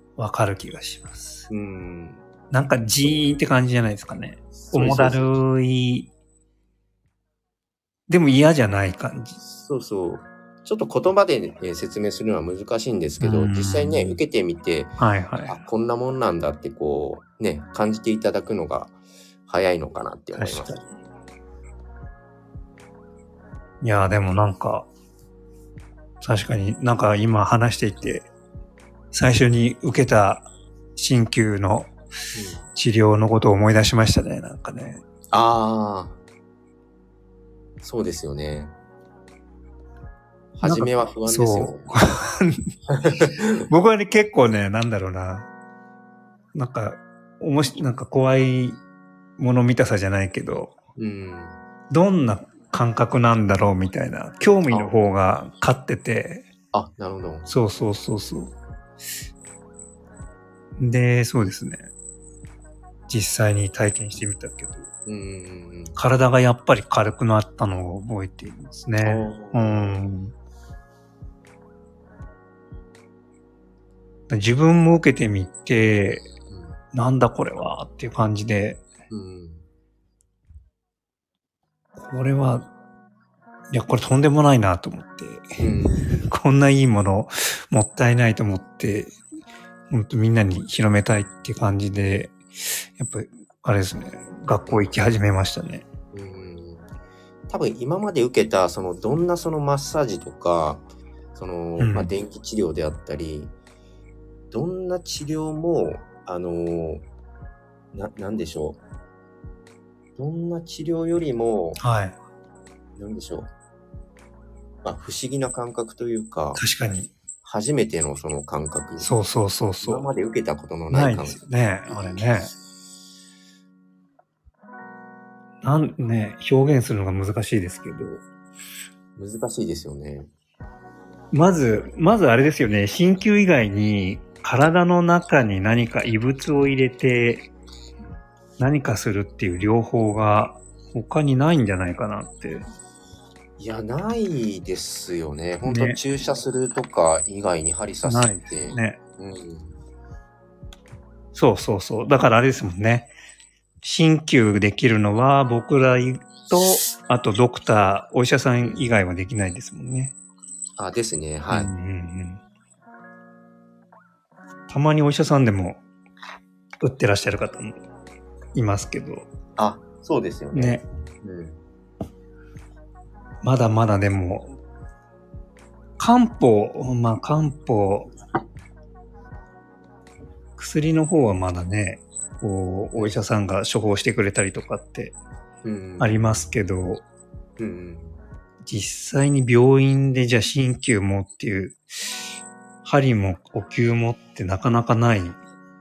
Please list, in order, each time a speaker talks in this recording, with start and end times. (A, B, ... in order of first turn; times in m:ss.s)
0:00.2-0:01.5 A
0:01.5-0:02.2 B
0:02.5-0:06.1 A
0:04.5-0:05.3 B
0:08.1-0:09.4 A
0:09.4-0:18.9 B
0:13.2-0:14.2 A
0:15.0-0:15.6 A
0:19.5-0:20.8 B
0:20.3-0:20.8 A
0:23.8-0:24.9 A
0:26.2-0:28.3 A
0:29.1-0:31.9 A
0:32.3-0:32.7 B
0:32.7-0:35.0 A
0:35.3-0:36.2 B
0:37.8-0:38.7 B
0:40.5-0:41.9 B
0:40.6-0:42.7 A
0:42.9-0:43.6 B
0:43.6-0:45.5 A
0:46.5-0:48.8 A
0:49.4-0:50.8 A
0:51.0-0:51.6 B
0:51.9-0:56.4 A
0:56.7-0:57.5 B
0:57.5-0:58.5 A
1:00.8-1:01.9 A
1:03.1-1:04.9 A
1:05.0-1:06.0 B
1:05.9-1:10.3 A
1:09.0-1:10.1 B
1:14.3-1:16.3 A
1:16.5-1:16.8 B
1:16.9-1:18.8 A
1:19.1-1:19.6 B
1:22.0-1:22.7 A
1:23.7-1:29.2 A
1:25.6-1:26.2 B
1:29.9-1:35.8 A
1:36.1-1:36.9 B
1:37.5-1:43.5 B
1:41.8-1:42.1 A
1:44.5-1:47.0 B
1:47.9-1:48.8 B
1:50.2-1:51.8 B
1:51.8-1:52.2 A
1:53.0-1:53.5 B
1:54.8-1:56.6 B
1:56.6-1:57.1 A
1:57.4-1:59.1 B
1:59.0-2:00.1 A
1:59.8-2:01.4 B
2:00.9-2:02.5 A
2:05.6-2:08.2 A
2:09.2-2:10.3 B
2:11.3-2:17.5 A
2:18.6-2:22.6 A
2:23.6-2:29.7 B
2:25.6-2:26.0 A
2:28.0-2:29.0 A
2:31.3-2:33.1 A
2:33.8-2:40.1 A
2:40.8-2:41.7 B
2:41.5-2:42.4 A
2:44.7-2:45.8 A
2:46.8-2:47.8 A
2:48.5-2:49.3 A
2:49.6-2:51.6 B
2:50.5-2:50.8 A
2:53.4-2:54.6 A
2:56.0-2:58.1 A
3:00.6-3:05.2 A
3:05.6-3:06.5 B
3:06.0-3:07.0 A
3:07.6-3:08.2 B
3:08.6-3:12.2 A
3:12.8-3:15.4 A